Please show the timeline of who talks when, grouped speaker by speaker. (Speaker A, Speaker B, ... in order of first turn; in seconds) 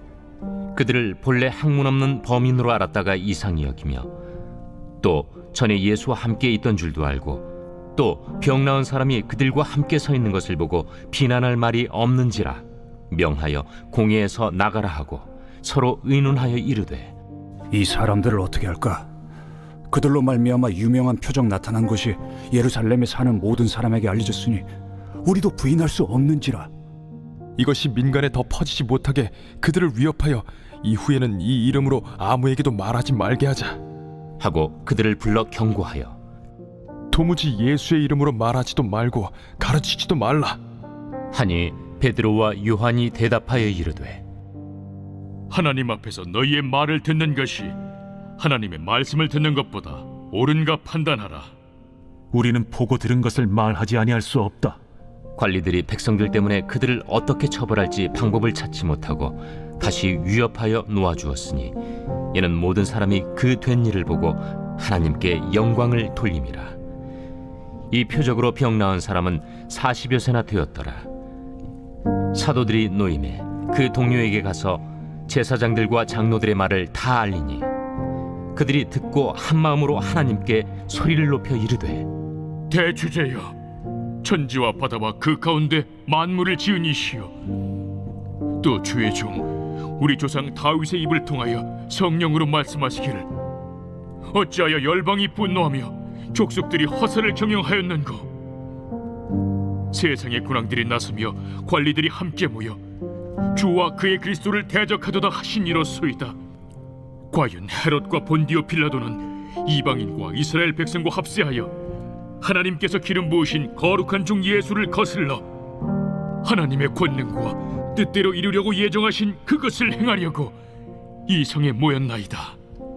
Speaker A: 0.7-4.1, 5.0-17.1, 34.4-36.2, 41.3-44.2, 55.4-61.8, 62.3-66.8, 67.9-71.1, 72.3-77.7, 78.5-82.1
Speaker B: 17.7-19.1, 19.9-24.7, 25.2-26.7
Speaker C: 27.6-33.8, 37.1-40.6
Speaker D: 45.5-47.7, 48.4-51.5, 82.7-83.5, 84.2-87.3, 88.6-93.3, 94.3-98.3, 99.9-102.8, 103.5-106.3, 107.3-111.7, 112.4-115.4, 116.4-120.5, 121.3-122.6
Speaker E: 52.3-54.8